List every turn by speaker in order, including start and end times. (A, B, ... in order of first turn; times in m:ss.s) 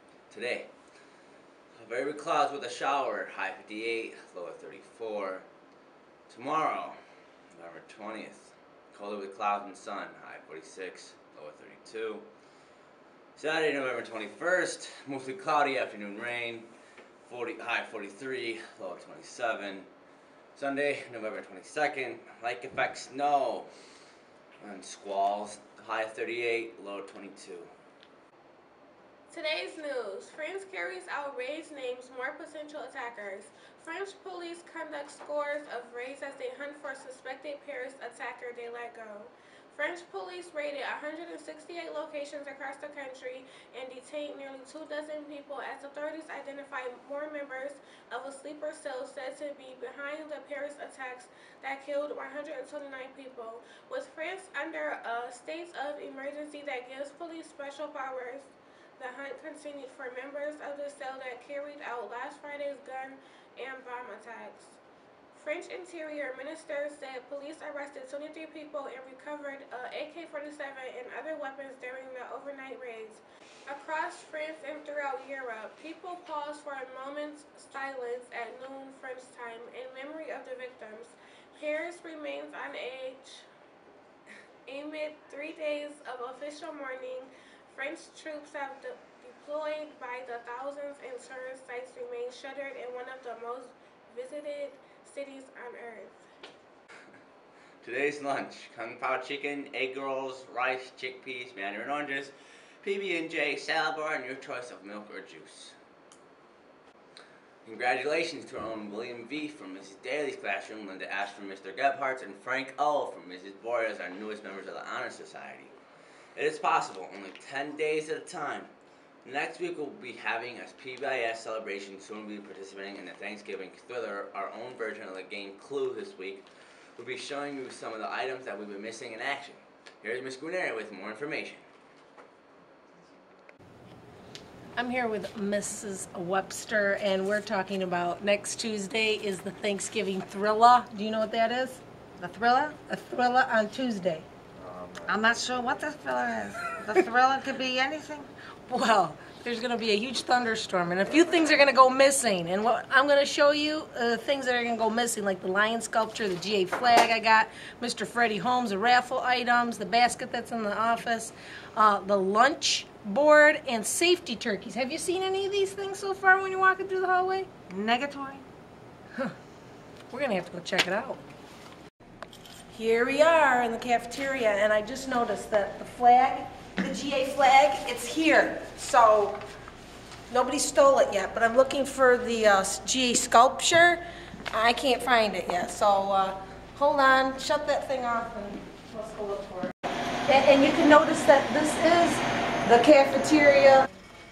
0:00.3-0:00.7 A
0:01.8-0:05.5 A
0:06.3-0:07.0 A
0:07.6-0:12.3 A
0:13.4-0:16.7 A
0:17.2-0:19.9 A
0:20.6-0:23.7 A
0:24.6-0:27.7 A
0:29.3-1:04.8 B
1:05.3-1:23.5 B
1:24.7-1:36.2 B
1:37.8-1:45.8 A
1:47.6-1:55.7 A
1:56.4-1:58.7 A
1:59.2-2:06.5 A
2:07.0-2:11.6 A
2:14.8-2:21.8 C
2:22.2-2:22.8 D
2:22.9-2:24.3 C
2:25.1-2:28.3 D
2:28.7-2:47.5 C
2:47.7-2:48.4 D
2:50.1-2:51.2 C
2:52.7-2:59.4 C
3:00.3-3:09.7 C
3:10.3-3:13.9 C